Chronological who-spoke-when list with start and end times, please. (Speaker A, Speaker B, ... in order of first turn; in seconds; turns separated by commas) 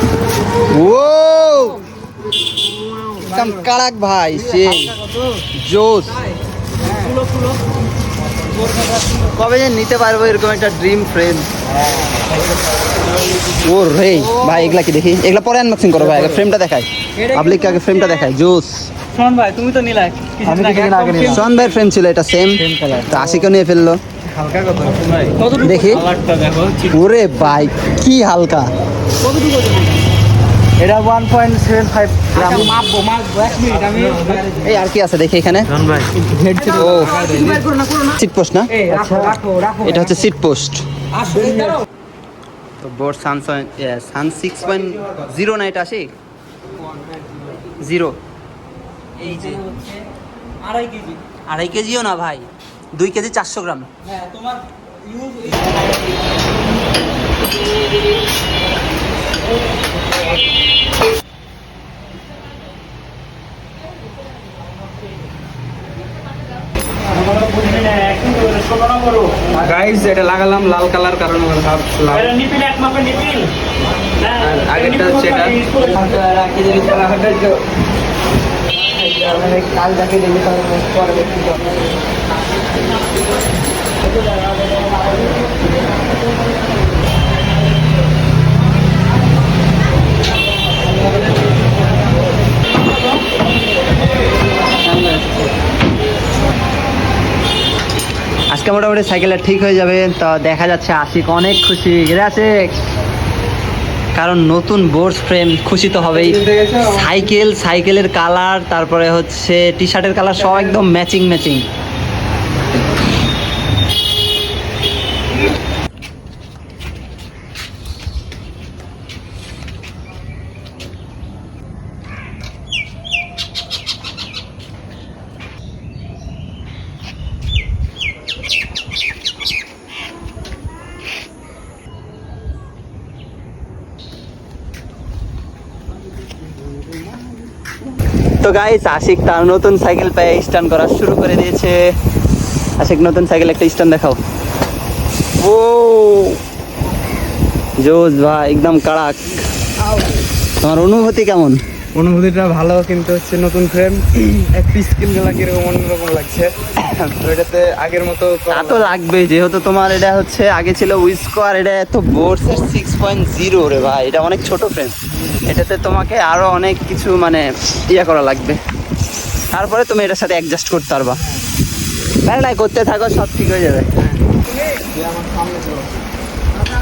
Speaker A: 0.7-1.8, Speaker B: 3.0-3.4, Speaker A: 3.2-5.0, Speaker B: 4.5-5.2, Speaker A: 5.6-6.2, Speaker B: 6.8-7.5, Speaker A: 9.2-11.5, Speaker A: 13.5-18.9, Speaker B: 17.2-18.2, Speaker B: 19.1-21.4, Speaker C: 20.5-21.3, Speaker A: 21.2-24.0, Speaker C: 24.4-25.3, Speaker B: 24.5-26.9, Speaker A: 25.5-26.1, Speaker A: 26.8-28.7, Speaker B: 29.2-29.9, Speaker B: 30.8-34.5, Speaker C: 30.9-32.3, Speaker A: 32.3-32.8, Speaker C: 33.7-34.4, Speaker A: 34.6-35.9, Speaker C: 35.8-37.6, Speaker B: 36.3-38.1, Speaker A: 36.9-37.2, Speaker A: 38.0-40.9, Speaker B: 38.7-40.1, Speaker B: 41.2-41.8, Speaker A: 42.8-46.1, Speaker A: 47.8-48.2, Speaker B: 49.2-50.0, Speaker A: 49.2-49.6, Speaker B: 50.6-51.2, Speaker A: 51.5-53.9, Speaker B: 54.1-55.6, Speaker B: 67.2-69.5, Speaker C: 69.5-72.4, Speaker B: 72.3-73.5, Speaker C: 74.3-75.7, Speaker B: 74.8-76.8, Speaker A: 76.0-77.5, Speaker A: 79.1-81.4, Speaker B: 79.2-79.6, Speaker B: 81.1-81.5, Speaker A: 94.9-95.2, Speaker A: 98.5-102.7, Speaker A: 104.1-111.7, Speaker C: 106.0-107.1, Speaker A: 138.4-141.8, Speaker A: 142.8-144.2, Speaker A: 145.4-146.4, Speaker A: 147.8-149.3, Speaker A: 150.6-151.6, Speaker C: 151.9-156.5, Speaker A: 156.8-157.1, Speaker C: 157.2-158.9, Speaker A: 158.5-168.6, Speaker A: 169.5-171.2, Speaker A: 172.2-173.9, Speaker B: 175.3-175.6